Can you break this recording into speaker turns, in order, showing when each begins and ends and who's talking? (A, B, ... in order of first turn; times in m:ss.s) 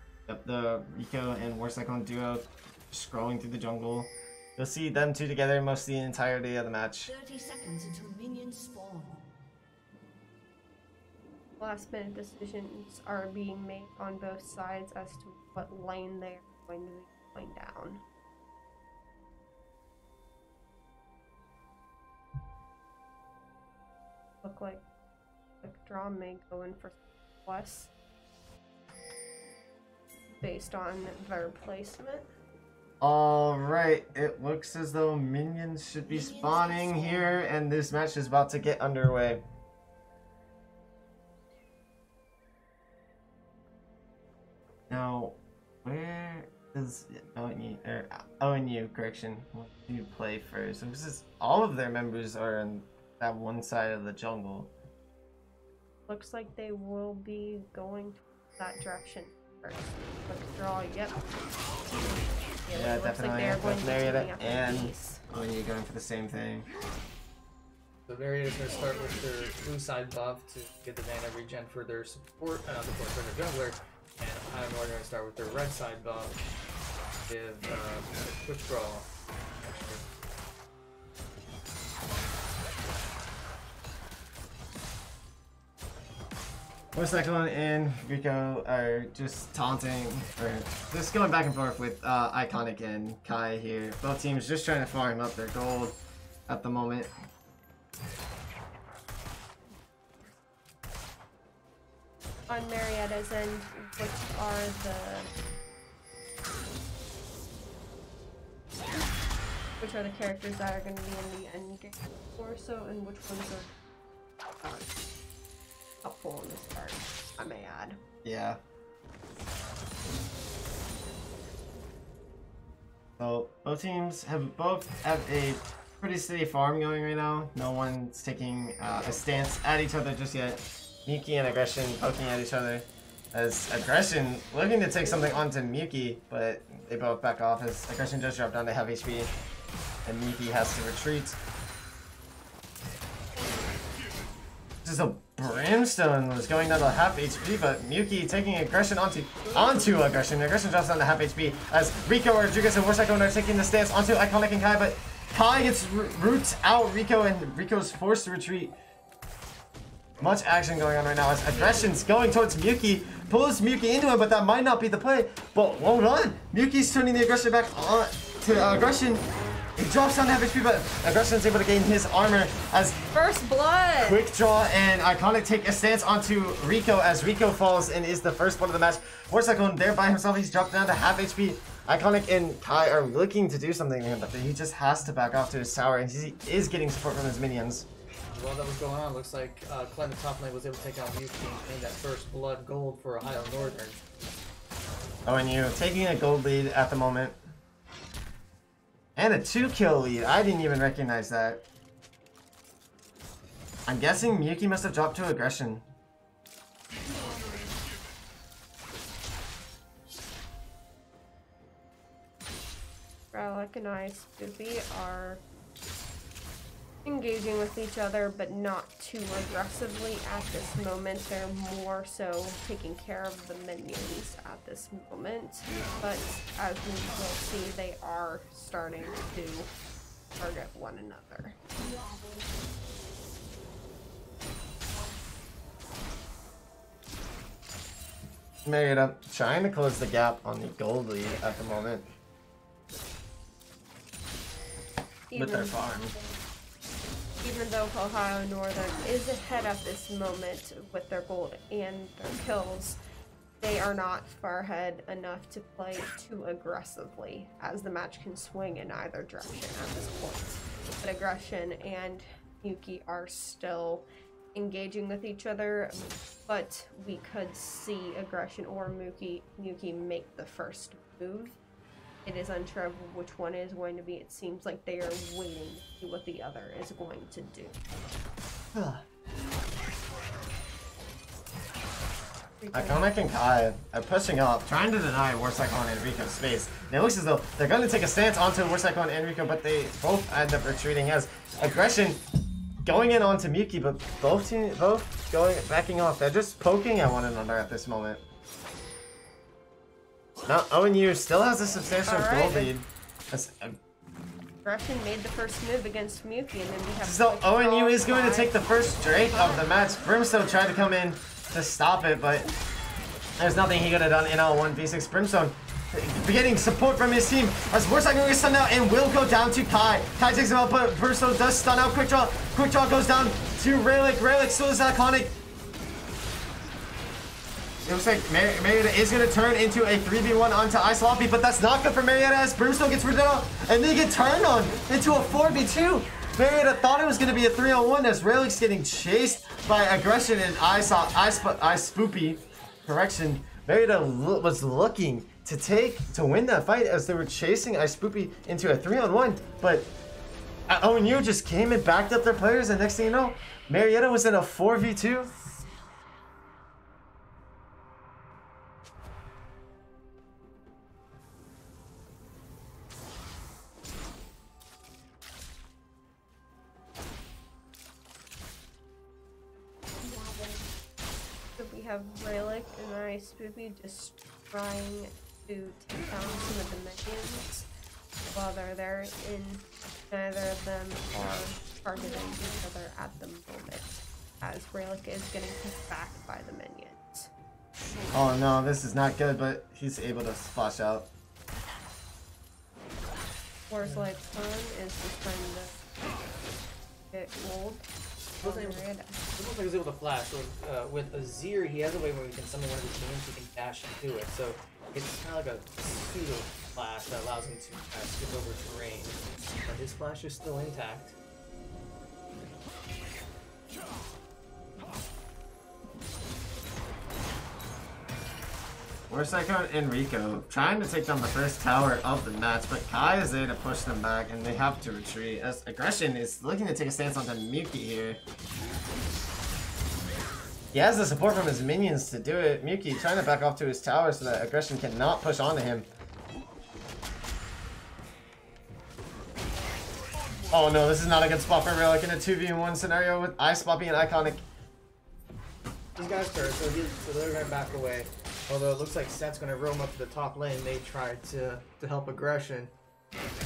0:00.3-0:07.1 A
0:07.0-0:09.3 B
0:11.6-0:18.0 C
0:24.4-0:24.8 C
0:25.6-0:27.9 C
0:30.4-0:32.3 C
0:33.0-0:39.4 A
0:36.1-0:37.3 B
0:44.9-0:54.7 A
0:56.1-1:01.2 C
1:02.6-1:05.2 C
1:02.7-1:06.6 A
1:08.1-1:16.4 D
1:17.3-1:19.1 D
1:19.6-1:20.0 D
1:26.9-1:36.0 A
1:36.5-1:37.1 A
1:42.5-1:45.3 C
1:49.8-1:53.7 C
1:54.6-1:55.0 C
1:56.0-1:58.0 C
1:58.2-1:58.6 A
2:03.2-2:19.3 A
2:20.0-2:21.4 A
2:24.8-2:38.7 A
2:40.2-2:49.2 A
2:49.8-2:53.0 A
2:53.1-2:54.2 C
2:54.0-3:07.9 A
3:08.3-3:14.0 D
3:15.2-3:17.4 A
3:19.2-3:21.6 A
3:23.9-3:25.8 A
3:33.3-3:35.4 C
3:37.0-3:49.7 C
3:50.4-3:51.6 C
3:51.8-3:52.6 B
3:58.6-4:02.1 A
4:05.3-4:06.4 C
4:05.3-4:06.1 A
4:07.4-4:13.0 C
4:13.6-4:31.6 C
4:32.2-4:37.7 C
4:38.7-4:39.0 A
4:42.6-4:43.0 C
4:42.7-4:52.2 A
4:52.8-4:58.2 A
5:00.4-5:03.8 A
5:02.0-5:02.7 C
5:04.6-5:09.7 C
5:07.0-5:12.5 A
5:13.4-5:25.4 A
5:27.8-5:49.9 A
5:50.7-5:55.3 A
6:11.6-6:17.6 C
6:18.3-6:27.3 C
6:28.1-6:31.1 A
6:33.7-6:35.8 C
6:37.1-6:37.8 C
6:38.4-6:39.2 C
6:38.4-6:38.8 D
6:39.4-6:51.1 D
6:59.1-7:08.2 A
7:10.7-7:15.9 A
7:20.5-7:24.4 A
7:26.0-7:32.7 D